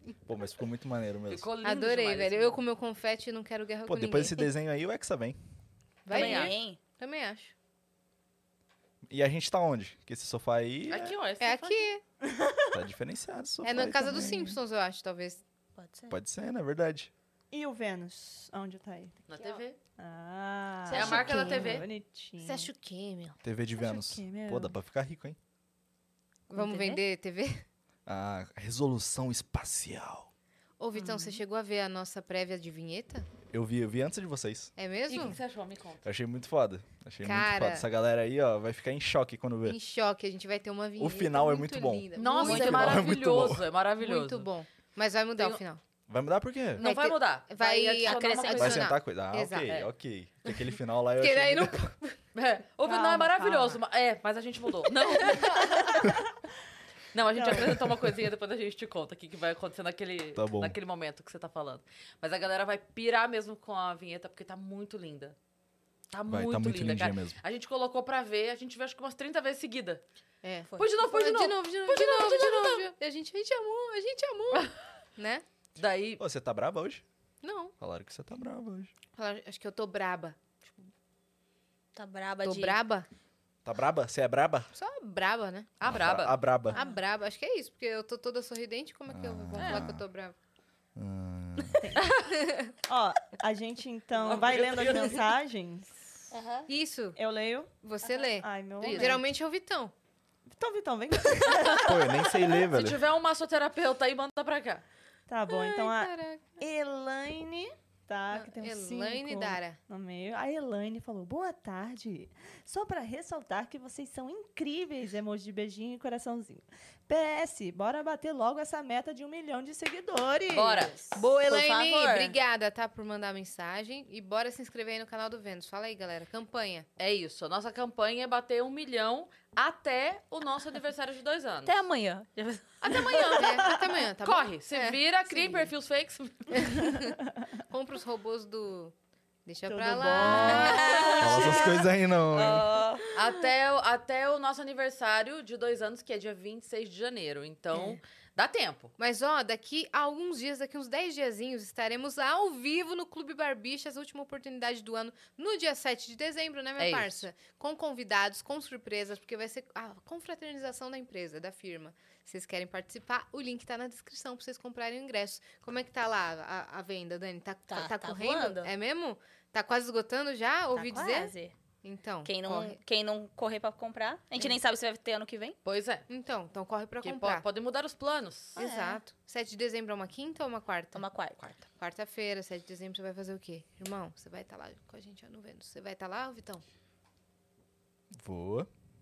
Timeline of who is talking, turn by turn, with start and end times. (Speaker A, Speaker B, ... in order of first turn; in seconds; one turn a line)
Speaker A: 0.3-1.5
Speaker B: 1.3-2.6
Speaker C: 1.6-4.5
Speaker A: 3.9-5.4
Speaker C: 6.0-7.5
Speaker B: 6.1-6.6
Speaker D: 6.1-6.8
Speaker A: 9.1-11.2
Speaker B: 10.9-11.9
Speaker C: 11.4-12.0
Speaker E: 12.2-12.7
Speaker A: 12.7-14.6
Speaker C: 13.6-15.4
Speaker D: 15.8-16.2
Speaker A: 16.1-17.1
Speaker E: 17.5-19.2
Speaker B: 19.3-19.8
Speaker E: 20.0-22.7
Speaker B: 20.9-21.9
Speaker C: 20.9-21.9
Speaker C: 22.4-23.4
Speaker A: 23.4-25.4
Speaker E: 23.8-24.8
Speaker C: 26.5-27.6
Speaker D: 26.6-27.0
Speaker A: 28.1-30.3
Speaker C: 30.8-33.3
Speaker D: 30.9-31.4
Speaker A: 33.5-34.7
Speaker C: 34.8-35.4
Speaker B: 35.1-36.0
Speaker A: 36.0-39.8
Speaker C: 37.2-37.9
Speaker C: 39.6-43.2
Speaker A: 41.0-43.6
Speaker B: 42.2-44.5
Speaker C: 44.0-45.8
Speaker B: 45.4-45.6
Speaker A: 46.1-46.9
Speaker B: 46.8-48.9
Speaker C: 46.8-49.8
Speaker D: 48.0-48.7
Speaker A: 48.6-51.9
Speaker C: 51.2-52.2
Speaker B: 52.4-56.1
Speaker C: 52.9-53.8
Speaker C: 55.0-56.0
Speaker B: 57.1-65.4
Speaker E: 57.4-57.9
Speaker A: 60.4-60.8
Speaker B: 66.1-70.0
Speaker A: 66.3-67.4
Speaker C: 70.4-75.4
Speaker B: 70.8-72.8
Speaker B: 75.8-76.2
Speaker A: 76.2-77.0
Speaker C: 77.4-77.7
Speaker A: 77.8-78.9
Speaker C: 79.2-80.4
Speaker D: 82.0-82.8
Speaker C: 82.4-83.1
Speaker A: 83.7-84.7
Speaker C: 84.7-85.7
Speaker B: 85.8-86.4
Speaker A: 85.8-86.8
Speaker D: 86.7-87.0
Speaker C: 86.7-90.3
Speaker A: 89.1-90.0
Speaker B: 89.6-89.9
Speaker A: 91.0-91.8
Speaker E: 91.8-92.2
Speaker C: 92.3-92.7
Speaker E: 92.9-96.1
Speaker B: 94.2-95.2
Speaker D: 96.3-96.7
Speaker C: 96.7-97.2
Speaker E: 97.2-97.7
Speaker C: 97.8-99.9
Speaker E: 98.4-99.2
Speaker B: 98.8-99.2
Speaker E: 100.5-102.1
Speaker B: 101.6-101.9
Speaker A: 101.8-103.0
Speaker B: 102.6-104.8
Speaker E: 105.3-121.2
Speaker C: 105.5-106.6
Speaker C: 108.3-109.8
Speaker B: 120.5-121.0
Speaker D: 121.2-122.4
Speaker C: 121.2-126.9
Speaker B: 127.0-131.8
Speaker D: 131.7-133.2
Speaker B: 132.8-133.7
Speaker C: 133.2-135.7
Speaker B: 134.2-136.7
Speaker C: 136.5-137.2
Speaker C: 137.7-138.9
Speaker C: 139.5-141.5
Speaker E: 139.7-141.7
Speaker D: 140.3-141.7
Speaker A: 141.2-142.7
Speaker D: 142.3-143.1
Speaker B: 143.2-148.9
Speaker C: 149.0-172.8
Speaker B: 156.8-157.2
Speaker D: 167.7-168.7
Speaker D: 170.8-171.5
Speaker D: 172.2-175.6
Speaker B: 175.7-176.1
Speaker C: 176.1-177.4
Speaker B: 177.0-178.6
Speaker D: 178.6-179.0
Speaker C: 178.6-181.0
Speaker D: 180.9-181.6
Speaker C: 181.8-186.6
Speaker A: 188.2-188.7